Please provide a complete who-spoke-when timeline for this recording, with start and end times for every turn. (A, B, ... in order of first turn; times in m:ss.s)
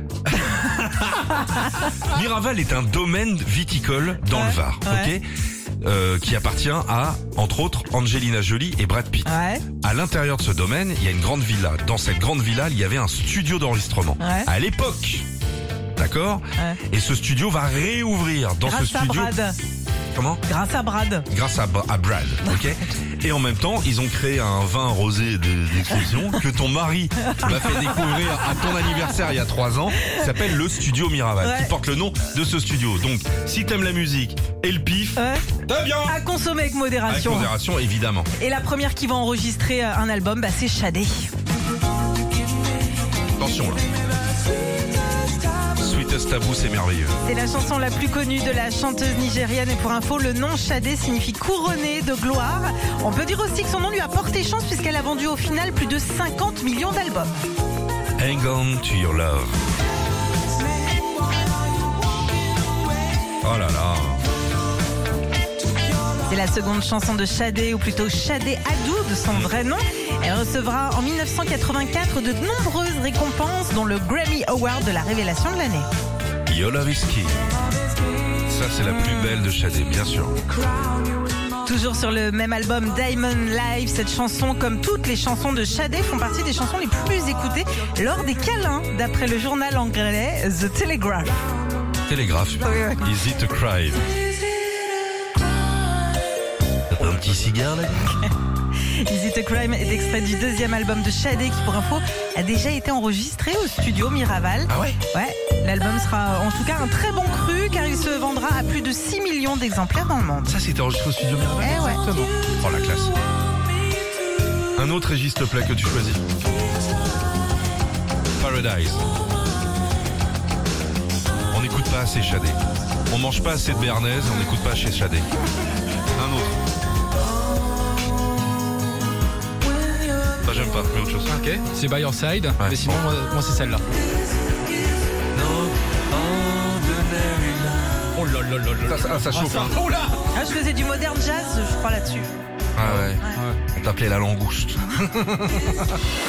0:00.5-0:05.2 A
0:04.3-0:05.1 B
0:05.8-0:15.2 A
0:09.2-0:09.6 B
0:14.2-0:14.5 B
0:16.0-0:19.3 A
0:18.6-0:19.6 B
0:20.1-0:20.4 A
0:20.5-0:21.2 B
0:21.3-0:36.2 A
0:27.2-0:29.0 B
0:30.0-0:30.3 B
0:31.4-0:31.7 B
0:35.2-0:35.4 B
0:36.1-0:37.5 B
0:37.1-0:38.3 A
0:38.4-0:41.3 B
0:43.4-0:43.8 A
0:45.8-0:47.2 A
0:47.2-0:57.3 B
0:58.2-0:59.5 A
1:03.4-1:04.2 A
1:06.3-1:15.8 B
1:16.5-1:17.3 A
1:18.4-1:20.4 A
1:21.6-1:31.4 B
1:32.1-1:34.0 A
1:32.6-1:33.1 B
1:36.9-1:38.2 A
1:39.0-1:50.6 B
1:44.7-1:45.0 A
1:50.5-1:53.2 A
1:51.6-1:52.3 B
1:54.8-1:56.2 A
1:58.4-1:59.0 A
2:01.5-2:05.3 A
2:06.1-2:06.6 A
2:10.4-2:11.4 A
2:11.3-2:13.8 C
2:12.6-2:13.1 A
2:15.3-2:19.9 A
2:18.8-2:20.1 C
2:20.3-2:22.3 B
2:22.8-2:23.2 A
2:22.8-2:23.6 C
2:23.7-2:25.5 A